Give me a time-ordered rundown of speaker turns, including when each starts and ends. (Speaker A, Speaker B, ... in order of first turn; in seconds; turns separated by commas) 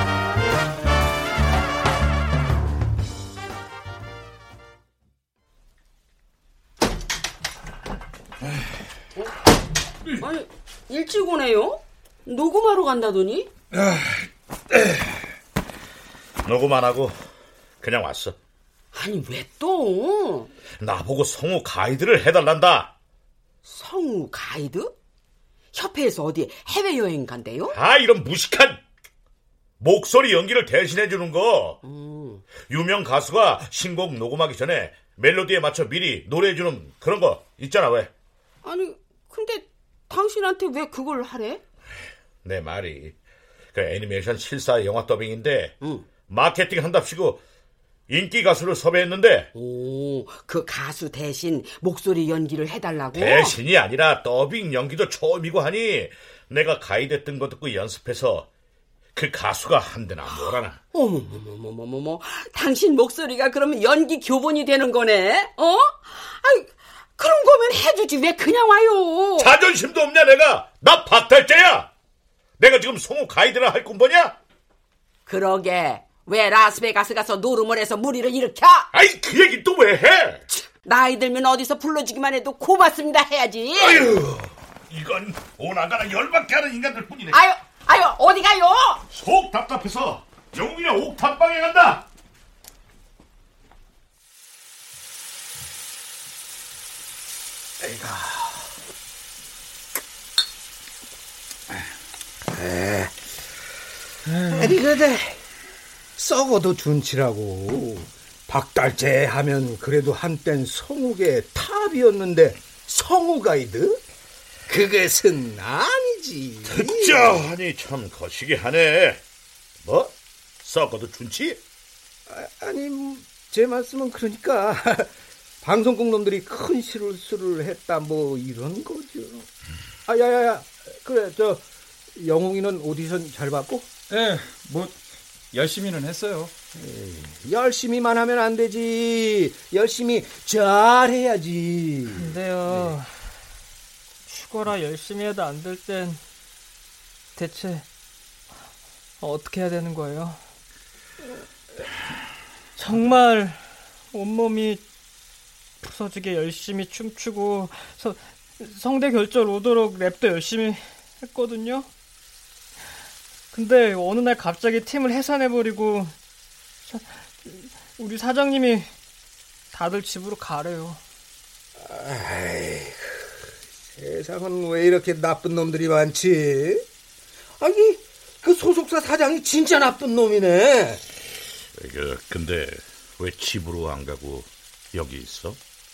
Speaker A: 10.2-13.5, Speaker B: 16.4-17.2, Speaker B: 17.8-18.4, Speaker A: 18.9-20.5, Speaker B: 20.8-22.9, Speaker A: 23.6-24.9, Speaker A: 25.7-27.8, Speaker B: 27.7-28.8, Speaker B: 29.8-31.8, Speaker A: 31.8-32.4, Speaker B: 32.7-38.1, Speaker A: 38.6-41.6, Speaker B: 42.4-43.1, Speaker B: 43.7-45.8, Speaker B: 46.3-47.4, Speaker B: 48.1-49.5, Speaker A: 49.5-53.5, Speaker B: 53.1-58.5, Speaker B: 59.1-60.8, Speaker A: 60.4-69.5, Speaker B: 69.4-71.9, Speaker B: 72.6-74.3, Speaker A: 75.3-78.9, Speaker B: 78.9-80.4, Speaker A: 80.5-84.1, Speaker B: 83.8-87.4, Speaker A: 87.3-89.0, Speaker B: 89.1-92.0, Speaker C: 97.8-98.6, Speaker C: 102.5-103.1, Speaker C: 104.4-105.4, Speaker C: 106.2-114.0, Speaker C: 114.7-117.5, Speaker B: 116.7-119.2, Speaker B: 119.8-121.6, Speaker C: 122.3-125.1, Speaker C: 125.6-129.5, Speaker C: 130.1-133.9, Speaker D: 134.1-135.0, Speaker D: 135.5-136.5, Speaker C: 136.7-142.4, Speaker E: 142.1-143.1, Speaker E: 144.3-146.2, Speaker E: 147.3-147.8, Speaker E: 149.2-150.4, Speaker E: 152.8-154.8, Speaker E: 155.8-161.9, Speaker E: 163.5-166.1, Speaker E: 166.9-168.9, Speaker E: 169.7-171.0, Speaker C: 171.8-173.3, Speaker C: 173.9-176.8, Speaker C: 177.6-181.0, Speaker B: 181.8-185.6